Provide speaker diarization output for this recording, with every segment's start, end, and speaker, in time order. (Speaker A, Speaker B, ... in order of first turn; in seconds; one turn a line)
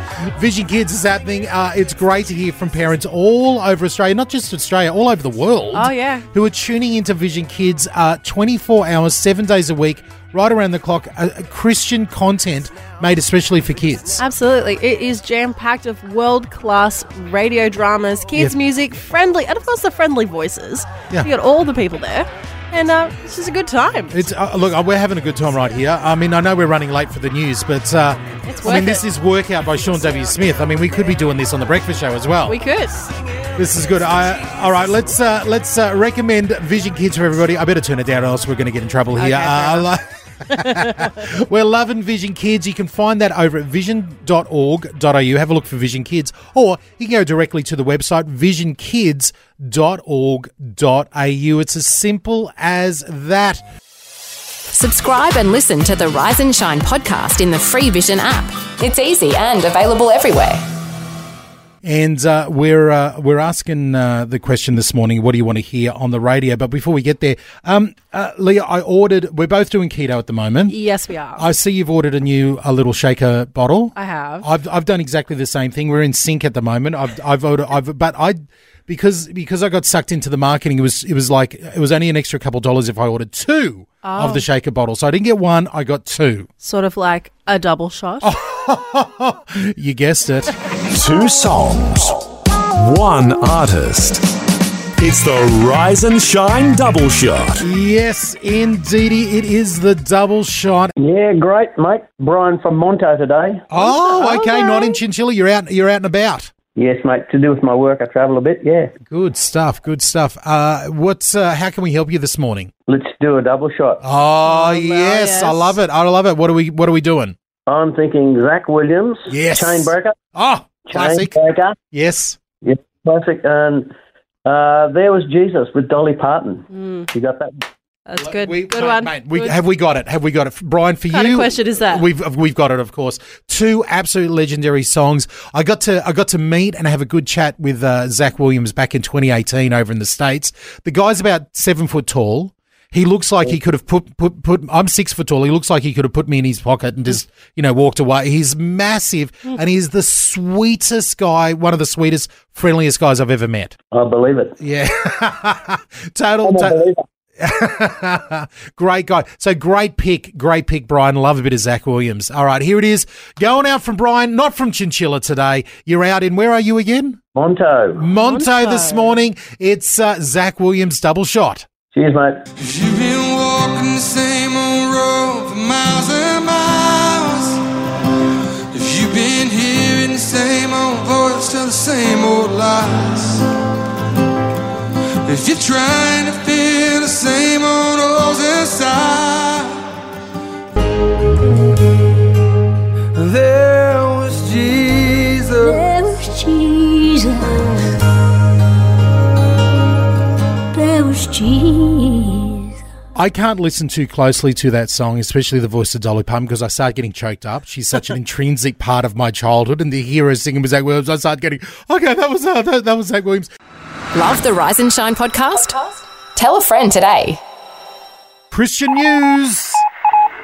Speaker A: 0.2-14.2
Speaker B: 5.7-6.3
Speaker B: 14.2-24.2
Speaker A: 24.1-32.6
Speaker B: 28.4-29.0
Speaker B: 32.5-33.1
Speaker A: 33.5-53.6
Speaker B: 39.2-39.9
Speaker B: 40.5-41.2
Speaker C: 54.7-60.6
Speaker A: 61.8-70.7
Speaker B: 70.7-71.5
Speaker A: 71.3-86.5
Speaker B: 74.0-74.5
Speaker B: 84.0-84.4
Speaker B: 86.6-88.3
Speaker A: 88.2-90.5
Speaker D: 90.9-94.3
Speaker D: 95.0-97.6
Speaker A: 97.6-100.9
Speaker E: 101.0-103.7
Speaker A: 103.7-106.5
Speaker B: 103.7-105.0
Speaker E: 106.7-108.9
Speaker A: 109.0-112.7
Speaker E: 112.9-114.0
Speaker A: 114.0-117.3
Speaker B: 114.5-115.8
Speaker E: 117.7-120.2
Speaker A: 119.3-121.4
Speaker E: 120.9-121.8
Speaker A: 121.9-122.4
Speaker E: 122.6-123.9
Speaker E: 124.4-127.6
Speaker B: 126.7-127.1
Speaker B: 128.1-129.6
Speaker A: 128.2-153.8
Speaker B: 131.1-132.1
Speaker E: 153.9-154.6
Speaker A: 154.6-156.8
Speaker E: 156.4-157.0
Speaker A: 157.4-167.2
Speaker E: 167.3-168.0
Speaker A: 168.0-171.7
Speaker B: 168.1-169.2
Speaker E: 171.9-172.4
Speaker F: 172.6-177.6
Speaker F: 178.7-183.4
Speaker F: 185.2-189.8
Speaker F: 193.2-195.8
Speaker G: 195.6-197.6
Speaker G: 200.7-202.8
Speaker A: 203.1-213.5
Speaker C: 214.1-217.4
Speaker A: 218.5-219.8